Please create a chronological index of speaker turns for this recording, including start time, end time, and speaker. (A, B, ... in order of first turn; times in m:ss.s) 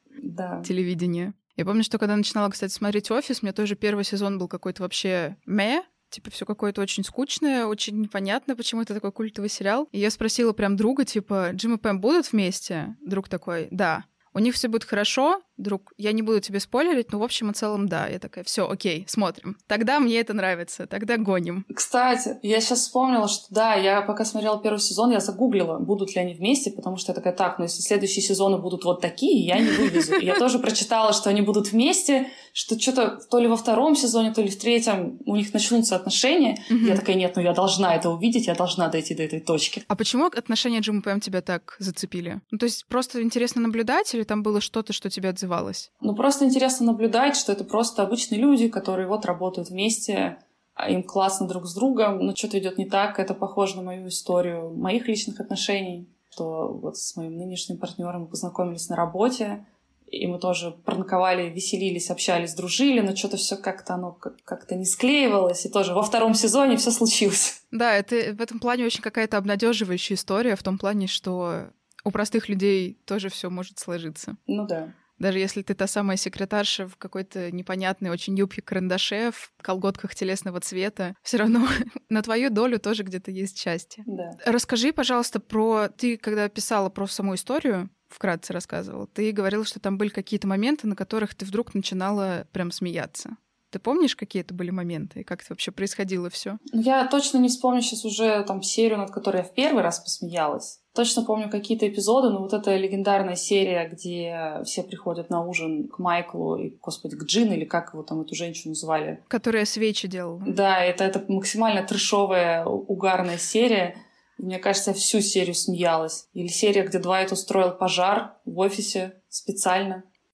0:00.2-0:00.7 A
0:00.6-0:21.6 B
0:21.7-0:39.8 A
0:29.8-0:30.3 B
0:36.7-0:37.0 B
0:39.9-0:45.9 B
0:46.0-1:07.6 A
1:07.7-1:14.4 B
1:14.5-1:14.9 A
1:15.2-1:36.6 B
1:24.0-1:24.4 A
1:36.7-1:49.2 A
1:49.3-1:50.5 B
1:50.4-2:00.0 A